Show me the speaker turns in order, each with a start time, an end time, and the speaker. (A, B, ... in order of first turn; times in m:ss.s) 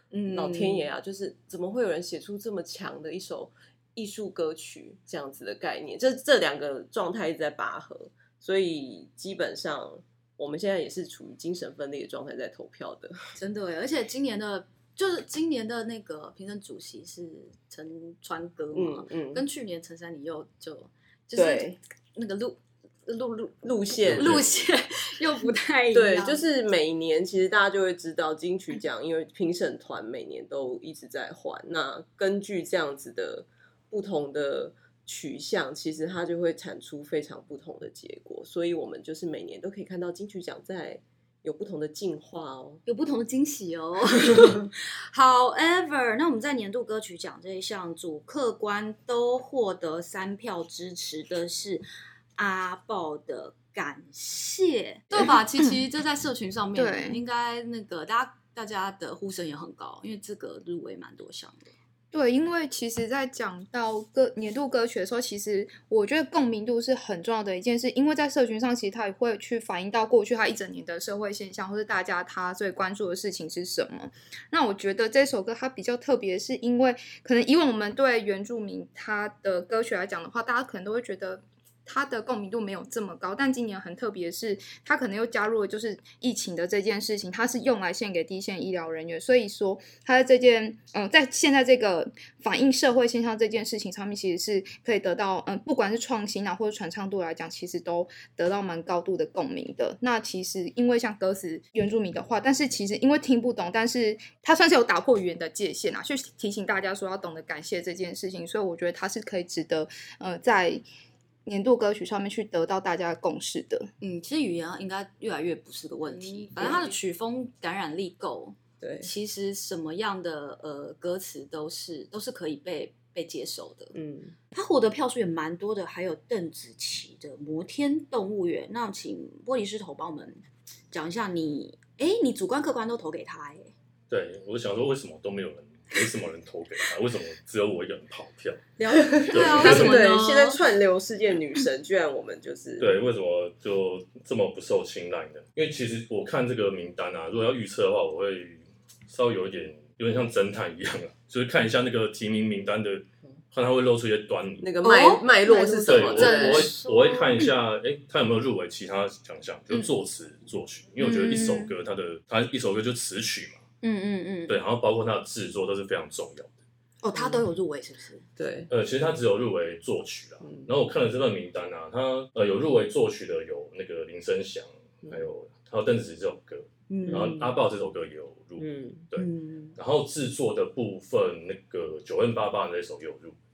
0:00.1-0:00.9 A
0:00.3-0:13.2 B
0:13.4-0:26.4 A
0:18.7-0:19.4 B
0:21.4-0:21.8 B
0:23.6-0:24.5 B
0:24.0-0:24.7 C
0:25.9-0:42.8 B
0:42.8-0:51.8 A
0:52.4-1:01.7 A
0:55.1-0:55.4 D
0:56.8-0:57.2 D
1:02.1-1:50.8 D
1:51.4-1:53.9 D
1:54.0-2:03.9 A
1:56.6-1:56.9 B
1:58.8-1:59.1 B
2:03.9-2:04.3 B
2:04.5-2:13.7 A
2:14.1-2:18.7 C
2:18.8-2:22.9 B
2:18.9-2:20.6 A
2:19.3-2:20.0 C
2:22.8-2:34.6 C
2:34.6-2:36.7 B
2:34.8-2:37.5 A
2:35.5-2:35.9 D
2:35.9-2:43.6 C
2:41.0-2:41.7 D
2:43.8-2:44.6 A
2:44.5-2:46.5 C
2:47.0-2:48.3 A
2:48.4-2:48.7 B
2:48.7-3:03.4 C
2:50.4-2:50.7 B
2:56.9-2:57.5 A
2:57.1-2:57.4 B
2:58.6-2:59.0 B
2:59.2-2:59.8 A